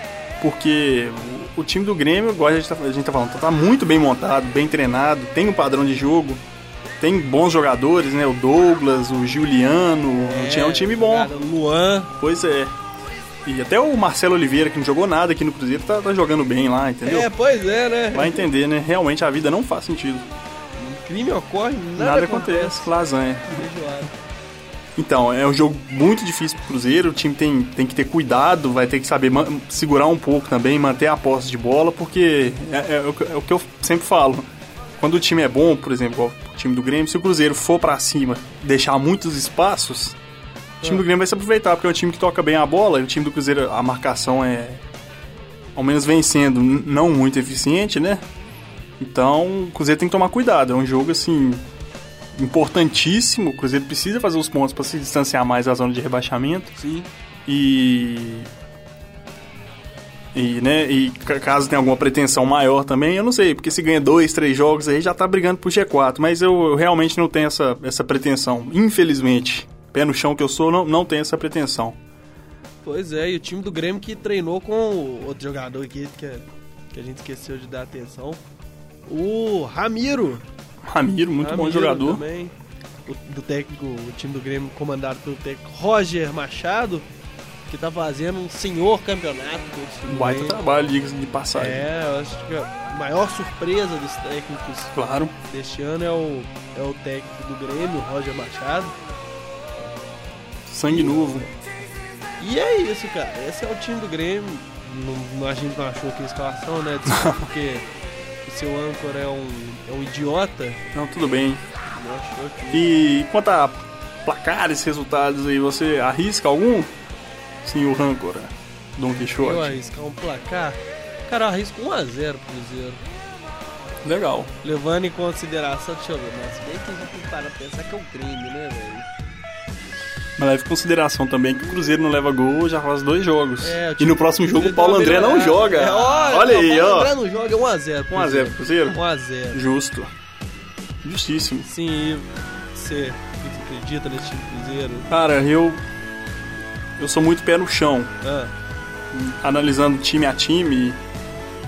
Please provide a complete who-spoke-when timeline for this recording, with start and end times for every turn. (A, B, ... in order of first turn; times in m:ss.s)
0:00.4-0:06.4 A
0:07.0-0:11.3 A
0:10.2-0:12.1 B
0:12.2-0:12.7 A
0:13.4-0:17.3 A
0:17.0-0:18.5 B
0:18.1-0:20.3 A
0:20.8-0:22.9 B
0:22.0-0:23.6 A
0:23.5-0:24.1 B
0:25.0-0:40.2 A
0:40.8-0:44.8 A
0:45.8-0:48.2 A
0:49.0-0:51.6 A
0:52.3-0:56.7 A
0:56.8-0:57.1 B
0:57.5-0:58.5 A
1:00.3-1:12.0 A
1:12.8-1:18.4 B
1:19.1-1:20.4 B
1:20.9-1:22.2 A
1:21.4-1:22.5 B
1:23.1-1:27.1 B
1:27.7-1:30.6 B
1:30.1-1:31.9 A
1:31.6-1:38.9 B
1:35.0-1:35.3 A
1:40.7-1:41.5 A
1:40.9-1:41.5 B
1:42.4-1:47.9 B
1:48.4-1:50.9 B
1:50.9-1:51.6 A
1:51.8-1:52.9 B
1:52.7-1:56.9 A
1:57.6-1:59.8 A
1:59.4-2:03.0 B
2:04.0-2:04.5 A
2:04.6-2:09.1 B
2:10.4-2:17.1 A
2:13.6-2:19.6 B
2:18.1-2:19.0 A
2:19.5-2:20.1 A
2:21.0-2:21.7 A
2:21.6-2:25.1 B
2:25.1-2:25.8 A
2:27.0-2:28.1 A
2:28.2-2:28.5 B
2:29.1-2:31.0 A